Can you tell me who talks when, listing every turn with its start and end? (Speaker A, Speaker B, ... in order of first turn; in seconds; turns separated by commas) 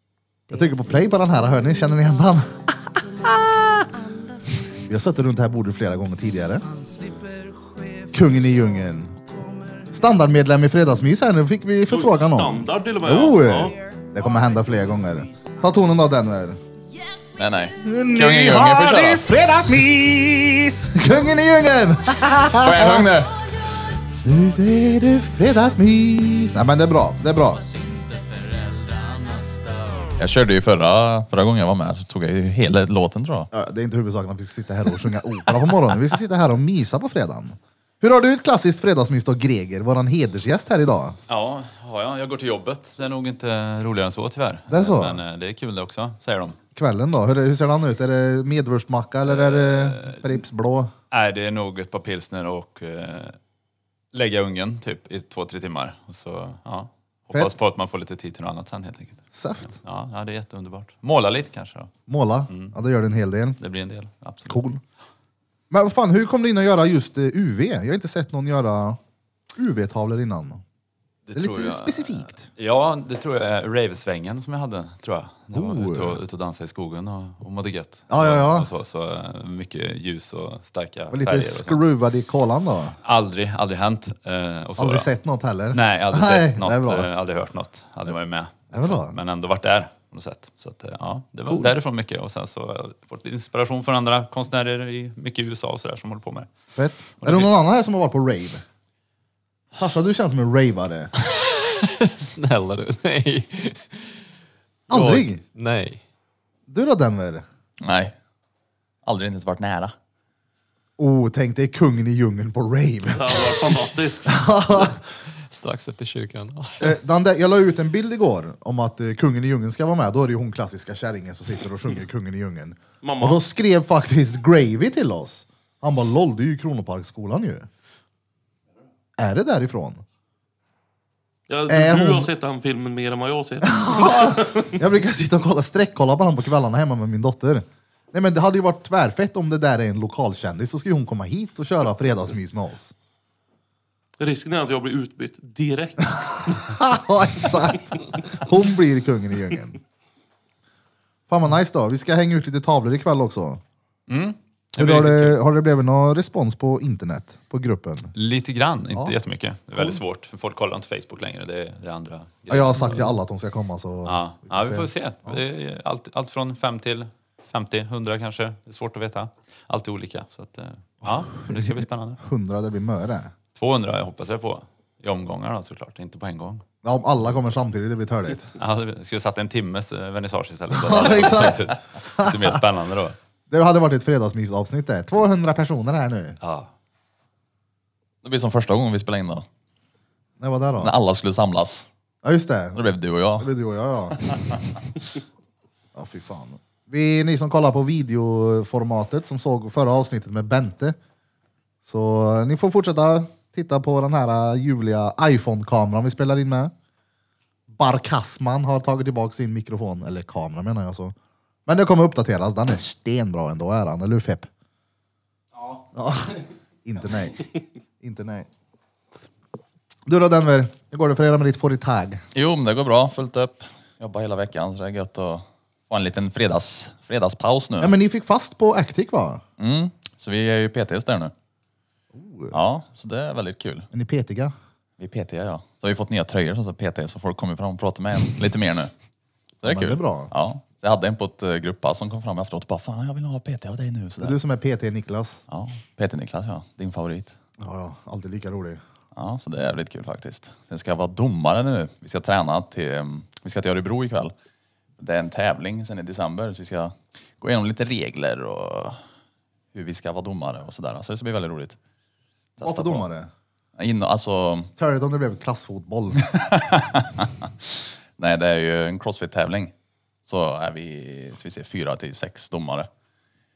Speaker A: 0.5-4.0, Speaker A: 4.7-6.7, Speaker A: 8.0-9.3, Speaker A: 9.8-16.6, Speaker B: 11.9-13.8, Speaker C: 17.4-19.2, Speaker A: 17.8-23.2, Speaker C: 22.6-23.4, Speaker A: 24.2-27.7, Speaker D: 27.9-29.7, Speaker C: 30.2-33.5, Speaker A: 33.5-41.2, Speaker D: 41.3-46.6, Speaker A: 44.7-45.2, Speaker A: 46.8-50.9, Speaker D: 49.3-50.4, Speaker D: 51.1-53.4, Speaker D: 54.1-61.9, Speaker A: 59.3-59.8, Speaker A: 62.1-63.6, Speaker D: 62.5-62.8, Speaker D: 63.6-64.6, Speaker A: 64.5-64.8, Speaker A: 65.7-69.0, Speaker A: 69.6-70.6, Speaker D: 71.3-81.8, Speaker A: 71.3-72.5, Speaker A: 75.5-76.2, Speaker A: 78.1-78.7, Speaker A: 81.1-83.0, Speaker D: 83.0-85.1, Speaker A: 84.8-87.1, Speaker D: 85.7-96.5, Speaker A: 88.7-89.2, Speaker A: 91.5-91.8, Speaker A: 96.8-98.6, Speaker D: 97.2-97.5, Speaker A: 99.7-101.1, Speaker E: 101.2-104.2, Speaker A: 104.9-105.4, Speaker E: 104.9-106.0, Speaker A: 106.7-107.5, Speaker C: 107.8-108.2, Speaker C: 109.0-110.0, Speaker A: 111.0-113.6, Speaker B: 113.2-114.4, Speaker A: 114.3-115.0, Speaker E: 115.5-117.0, Speaker A: 116.8-127.7, Speaker B: 123.0-123.4, Speaker A: 129.2-130.0, Speaker B: 131.5-134.7, Speaker A: 131.7-132.3, Speaker A: 133.6-142.9, Speaker B: 144.2-146.6, Speaker A: 146.5-149.8, Speaker A: 151.3-153.6, Speaker D: 154.1-155.4, Speaker A: 154.8-158.1, Speaker D: 158.1-163.0, Speaker A: 159.8-160.0, Speaker A: 162.5-165.4, Speaker D: 164.1-172.2, Speaker A: 171.1-173.3, Speaker D: 173.6-176.6, Speaker A: 176.8-178.5, Speaker D: 178.6-183.2, Speaker A: 180.7-182.6, Speaker A: 183.5-186.4, Speaker D: 186.4-186.7, Speaker C: 188.2-189.5, Speaker A: 190.4-191.0, Speaker C: 190.8-191.8, Speaker A: 192.2-192.8, Speaker C: 192.8-193.5, Speaker A: 193.4-194.2, Speaker A: 195.9-201.0, Speaker A: 201.9-206.7, Speaker A: 207.7-211.2, Speaker A: 211.7-214.5, Speaker A: 215.9-217.5, Speaker A: 218.0-218.5, Speaker A: 220.1-222.2, Speaker C: 222.3-227.9, Speaker A: 227.8-229.4, Speaker C: 229.6-231.3, Speaker A: 232.1-232.6, Speaker C: 232.5-233.9, Speaker A: 233.9-234.5, Speaker C: 235.0-238.9, Speaker C: 239.6-244.4, Speaker A: 239.6-240.3, Speaker A: 244.2-245.4, Speaker C: 245.5-247.3, Speaker A: 247.6-248.8, Speaker C: 249.2-254.3, Speaker C: 255.0-259.0, Speaker C: 259.7-261.8, Speaker C: 262.6-263.1, Speaker A: 262.6-263.3, Speaker C: 263.8-264.7, Speaker A: 264.8-266.3, Speaker C: 266.8-269.7, Speaker C: 270.3-272.9